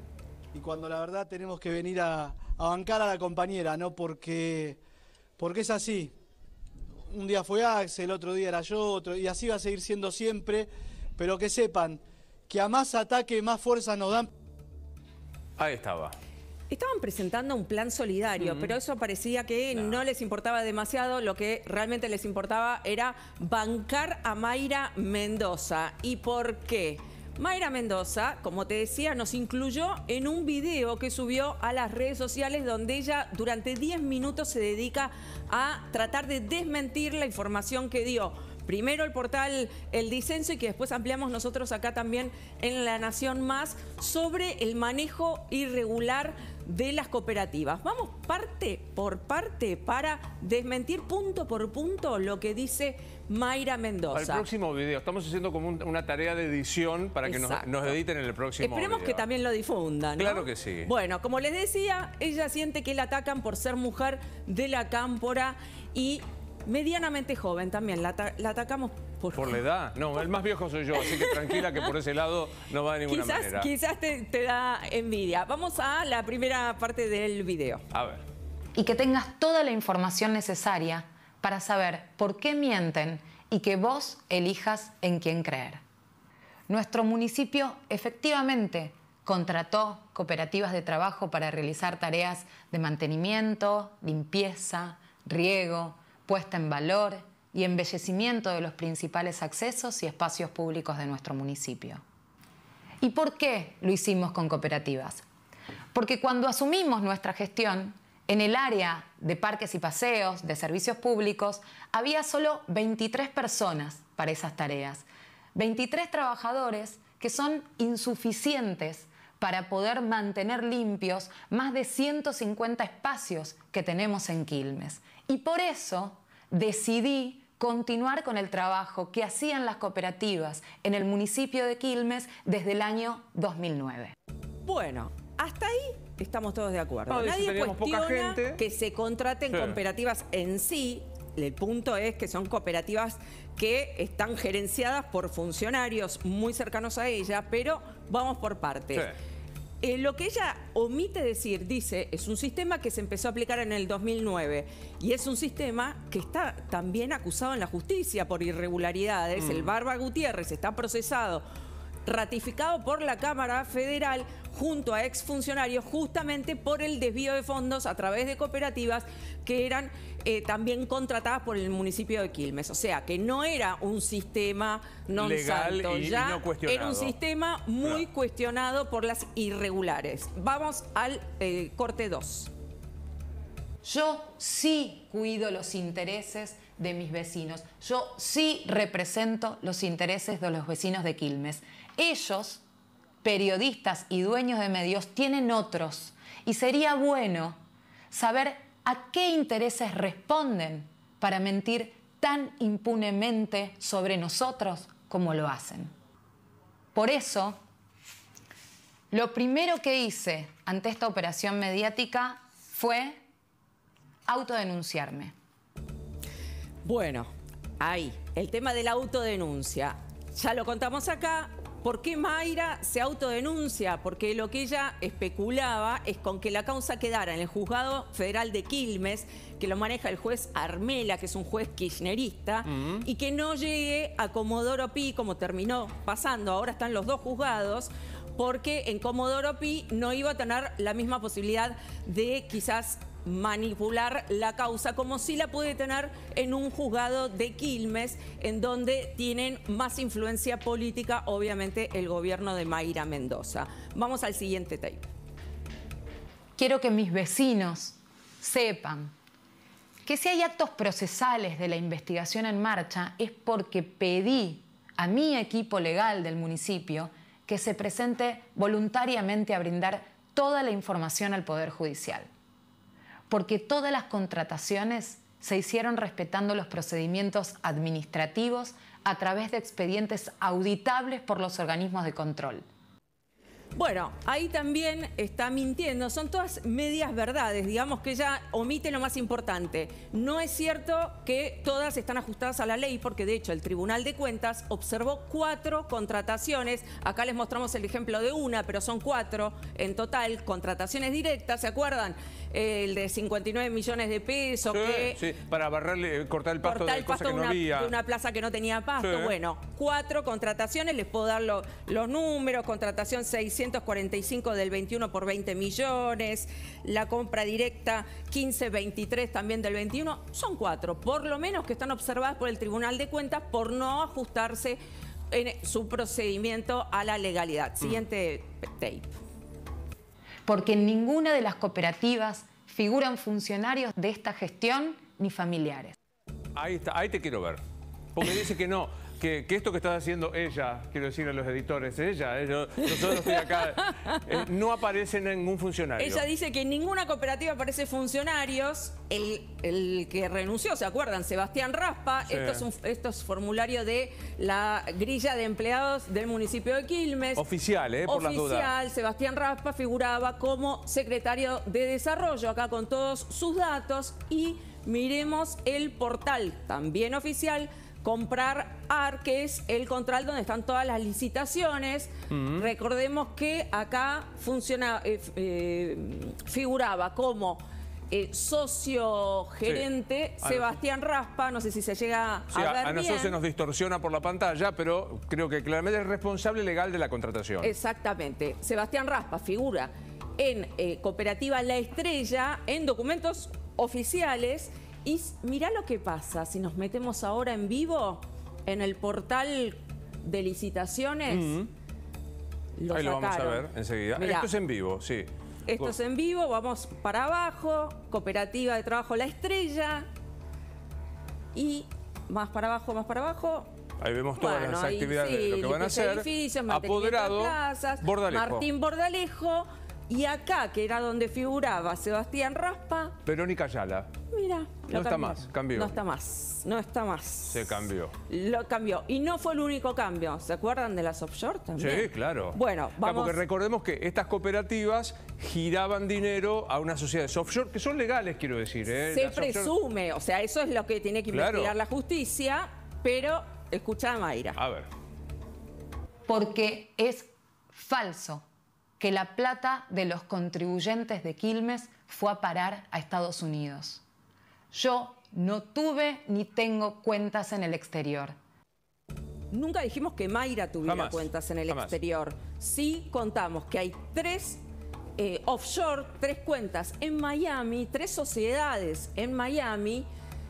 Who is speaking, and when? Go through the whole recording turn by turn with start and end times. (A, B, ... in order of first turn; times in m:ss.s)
0:00.5-0:04.8 A
0:05.4-0:06.1 A
0:07.1-0:14.3 A
0:15.6-0:16.2 B
0:16.7-0:54.5 C
0:18.4-0:18.7 B
0:19.7-0:20.0 B
0:54.1-0:59.2 B
0:57.2-0:58.0 C
0:58.6-1:09.6 C
1:00.2-1:00.9 B
1:09.3-1:13.7 B
1:11.0-1:11.9 C
1:13.1-1:17.8 C
1:17.9-1:18.2 B
1:18.8-1:25.8 D
1:26.7-1:42.0 D
1:43.0-1:45.2 D
1:45.9-2:14.1 D
2:14.6-2:29.1 C
2:17.1-2:18.6 B
2:29.8-2:41.4 C
2:39.4-2:39.7 B
2:42.1-3:02.5 C
2:55.2-2:57.2 B
3:03.8-3:12.6 D
3:13.2-3:17.6 D
3:18.1-3:25.9 D
3:27.0-3:27.6 D
3:29.1-3:33.2 D
3:34.3-3:35.3 D
3:36.8-3:37.3 C
3:37.8-4:15.1 C
3:52.7-3:53.0 B
4:16.6-4:19.1 D
4:20.0-4:32.3 D
4:33.3-4:42.6 D
4:43.8-5:05.2 C
5:04.7-5:07.9 B
5:06.6-5:24.8 C
5:09.0-5:09.4 B
5:25.3-5:29.2 C
5:30.5-5:36.0 D
5:36.6-5:37.6 B
5:38.2-5:46.2 B
5:43.1-5:44.2 C
5:46.0-5:57.5 C
5:52.3-5:52.6 B
5:57.4-5:58.7 B
5:58.0-6:23.4 C
6:12.3-6:12.7 B
6:20.4-6:20.8 B
6:22.5-6:27.7 B
6:27.6-6:41.6 C
6:41.3-6:41.7 B
6:42.8-6:44.5 C
6:42.9-6:45.9 B
6:45.7-6:50.1 C
6:51.6-6:53.7 C
6:54.0-6:58.7 B
6:54.4-7:03.2 C
7:03.2-7:04.1 B
7:04.3-7:13.4 C
7:04.9-7:05.9 B
7:07.5-7:08.1 B
7:11.8-7:19.7 B
7:19.0-7:24.6 C
7:21.3-7:21.7 B
7:24.6-7:24.9 B
7:26.3-7:28.4 D
7:29.0-7:34.0 D
7:34.7-7:38.4 D
7:39.5-7:44.6 C
7:40.8-7:42.0 B
7:45.2-7:50.1 C